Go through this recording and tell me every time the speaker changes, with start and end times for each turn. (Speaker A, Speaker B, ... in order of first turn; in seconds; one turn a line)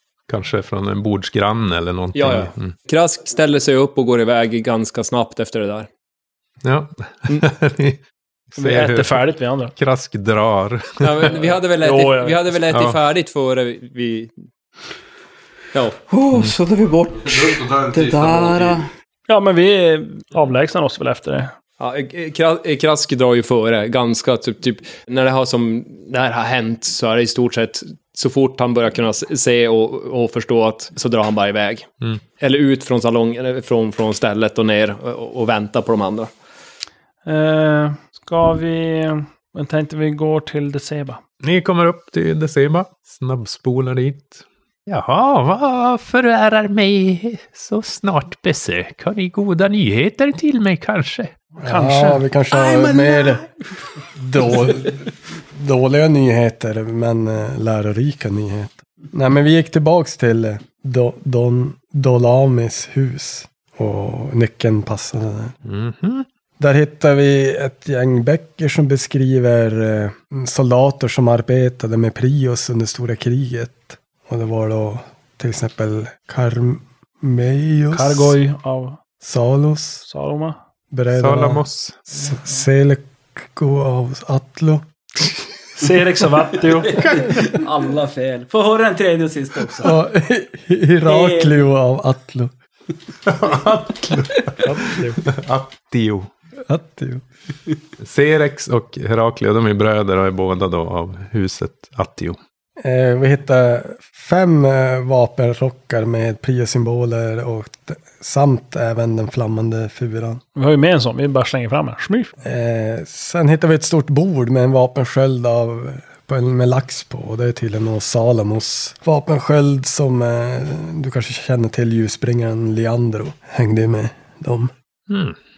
Speaker A: 0.3-2.7
Speaker B: 2.1-5.9
Speaker A: 6.6-8.0
Speaker C: 8.6-9.7
Speaker A: 8.6-11.3
Speaker B: 11.0-14.3
Speaker C: 11.8-12.5
Speaker A: 12.7-13.0
Speaker B: 15.7-16.0
Speaker D: 16.1-18.9
Speaker C: 19.3-21.5
Speaker B: 21.8-36.3
Speaker C: 37.2-41.2
Speaker A: 41.4-51.3
Speaker C: 51.6-53.2
Speaker E: 51.6-53.4
Speaker E: 54.2-65.5
Speaker A: 65.6-66.2
Speaker E: 66.6-78.3
Speaker C: 77.9-79.0
Speaker E: 79.2-80.0
Speaker C: 80.0-80.6
Speaker E: 80.9-84.8
Speaker A: 81.1-82.0
Speaker C: 85.8-87.2
Speaker D: 86.8-90.0
Speaker E: 89.8-92.5
Speaker D: 91.0-91.6
Speaker A: 93.2-96.3
Speaker C: 94.6-95.2
Speaker E: 96.7-97.2
Speaker A: 98.0-102.4
Speaker E: 102.8-110.4
Speaker C: 110.5-112.3
Speaker E: 112.4-124.7
Speaker A: 125.1-125.3